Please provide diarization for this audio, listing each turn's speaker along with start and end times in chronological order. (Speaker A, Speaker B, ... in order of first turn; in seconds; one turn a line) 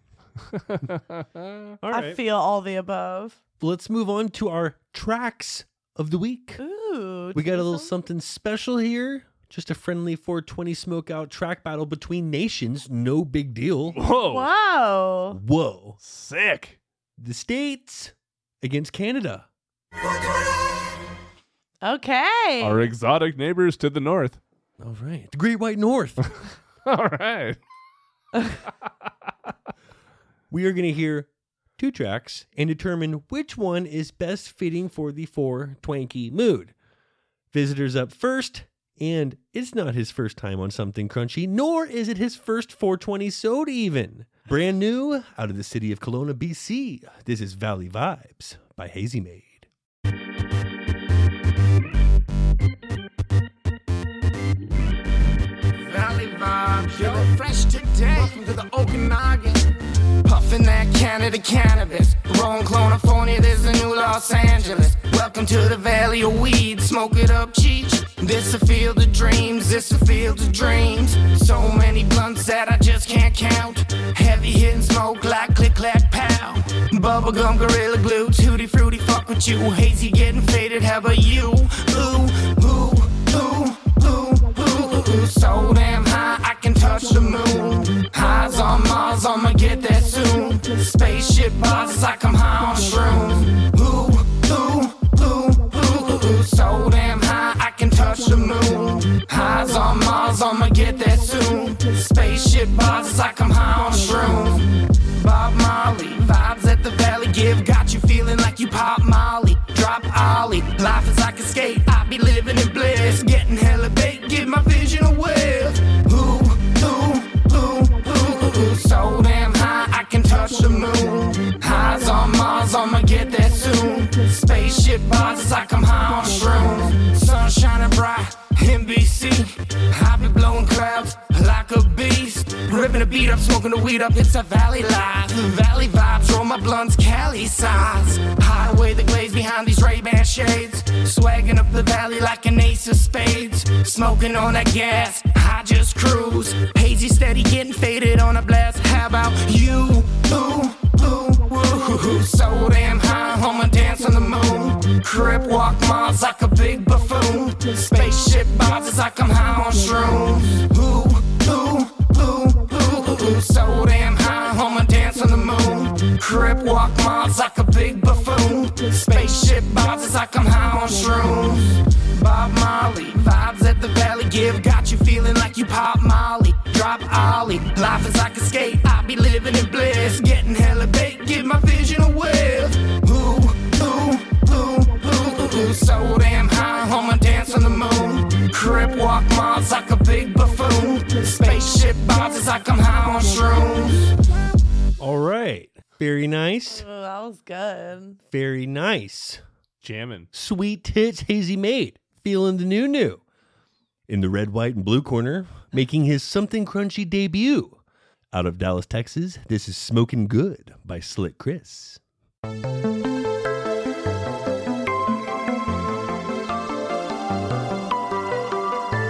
Speaker A: 0.5-1.7
Speaker B: 1.8-2.2
Speaker C: 1.9-3.4
Speaker B: 3.6-6.6
Speaker C: 6.6-7.9
Speaker B: 7.3-14.0
Speaker A: 14.0-14.5
Speaker C: 14.2-15.4
Speaker B: 15.3-16.0
Speaker A: 16.0-16.8
Speaker B: 17.2-19.5
Speaker C: 21.8-22.9
Speaker A: 22.6-24.4
Speaker B: 24.8-26.2
Speaker A: 26.9-27.6
Speaker B: 30.5-36.7
Speaker B: 37.5-49.7
Speaker D: 55.9-59.6
Speaker D: 60.2-194.1
Speaker B: 195.0-196.8
Speaker C: 196.7-198.2
Speaker B: 198.3-199.4
Speaker A: 199.8-200.3
Speaker B: 200.3-203.2
Speaker B: 204.1-207.8
Speaker B: 208.3-212.0